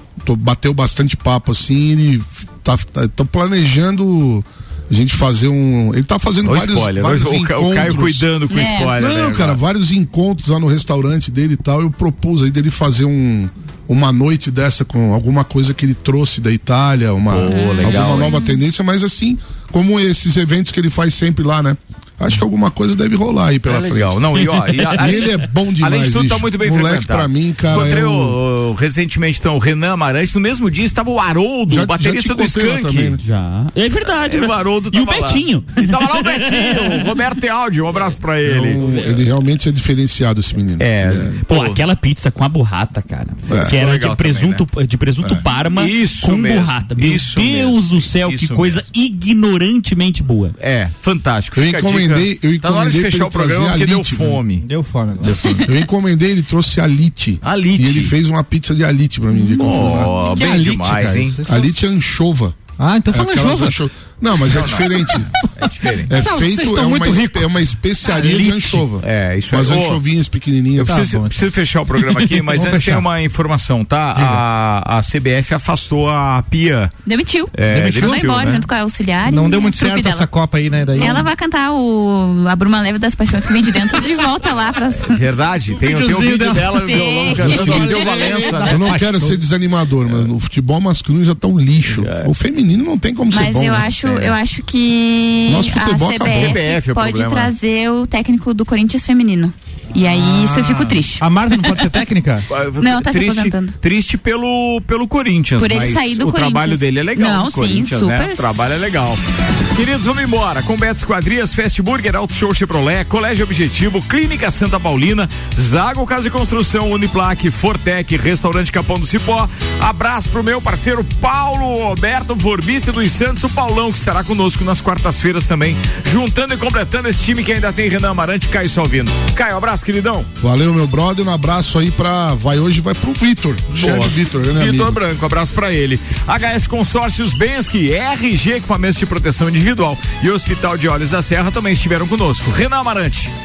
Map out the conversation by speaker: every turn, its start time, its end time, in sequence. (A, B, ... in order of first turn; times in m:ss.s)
0:00.2-0:08.3 A
0:06.4-0:09.6 B
0:08.5-0:08.9 C
0:08.9-0:24.2 A
0:17.3-0:18.4 B
0:17.4-0:18.6 C
0:23.7-0:33.2 B
0:24.8-0:28.4 A
0:31.7-0:33.2 A
0:33.2-0:37.2 D
0:34.1-0:38.8 B
0:38.4-0:41.4 A
0:40.8-0:41.8 B
0:41.5-0:50.6 D
0:43.5-0:43.8 A
0:43.6-0:44.6 B
0:45.5-0:48.9 B
0:50.6-0:54.7 B
0:51.6-0:54.4 A
0:54.6-0:55.7 E
0:55.2-0:55.6 B
0:55.6-1:00.2 A
0:57.4-0:58.2 B
0:59.4-0:59.6 C
0:59.6-1:01.4 B
1:00.2-1:01.7 E
1:01.5-1:02.6 A
1:02.8-1:03.8 E
1:03.1-1:05.3 A
1:04.5-1:06.1 B
1:06.1-1:07.5 E
1:06.1-1:11.1 A
1:08.1-1:08.8 E
1:08.7-1:10.0 B
1:10.8-1:13.1 E
1:10.8-1:16.9 B
1:14.1-1:14.4 E
1:17.1-1:20.3 C
1:17.5-1:18.6 B
1:17.7-1:18.6 E
1:19.2-1:21.3 E
1:20.9-1:25.2 C
1:25.0-1:29.0 B
1:25.8-1:29.4 E
1:26.8-1:28.6 C
1:27.4-1:28.0 A
1:28.6-1:33.9 A
1:31.8-1:32.3 B
1:33.3-1:41.8 C
1:34.0-1:34.4 B
1:35.5-1:36.6 A
1:36.2-1:37.6 B
1:40.0-1:42.5 E
1:42.5-1:49.2 B
1:42.8-1:43.8 C
1:45.6-1:48.5 C
1:49.7-2:10.3 B
2:10.4-2:15.0 A
2:13.7-2:23.3 B